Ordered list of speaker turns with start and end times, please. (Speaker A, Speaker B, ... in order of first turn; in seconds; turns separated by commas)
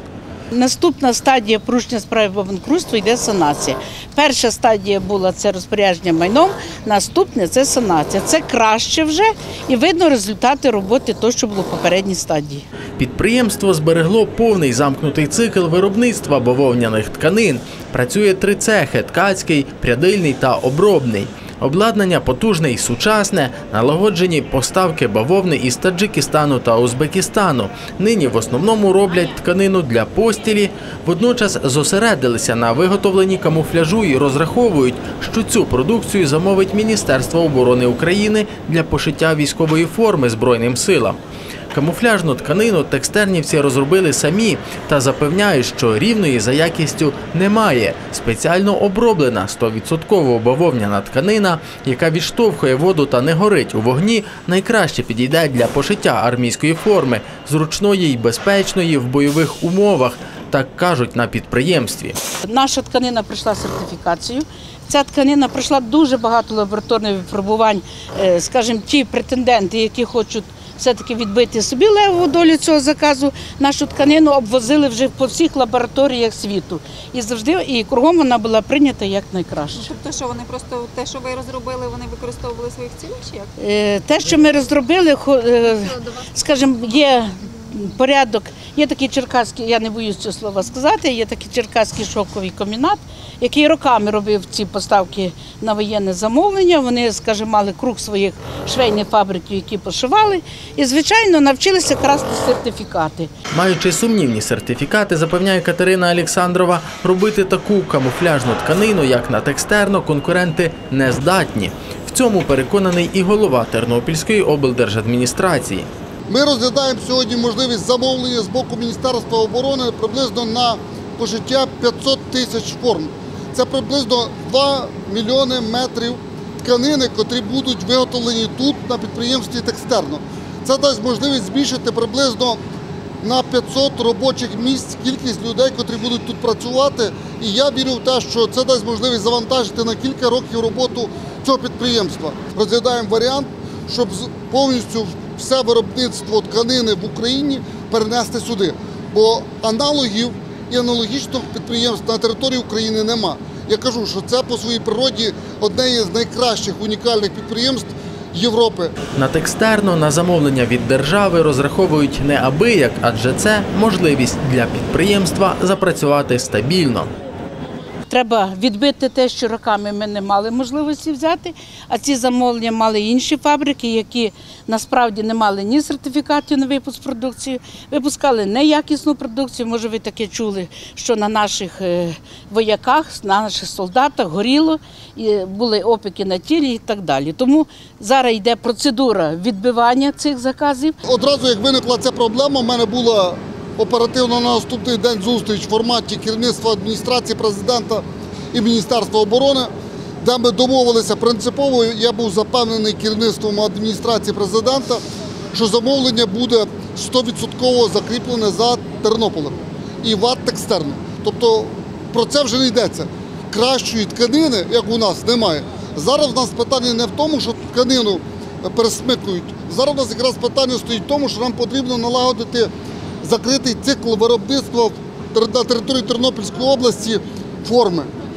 Speaker A: 0.5-12.7, Speaker B: 13.0-41.2, Speaker B: 41.7-62.2, Speaker A: 62.4-79.9, Speaker C: 79.8-83.5, Speaker A: 83.6-103.3, Speaker B: 103.5-115.9, Speaker D: 116.3-132.6, Speaker D: 133.2-158.9, Speaker B: 159.2-167.1, Speaker A: 168.1-190.9, Speaker D: 191.0-205.0, Speaker D: 205.5-222.7, Speaker D: 223.2-228.1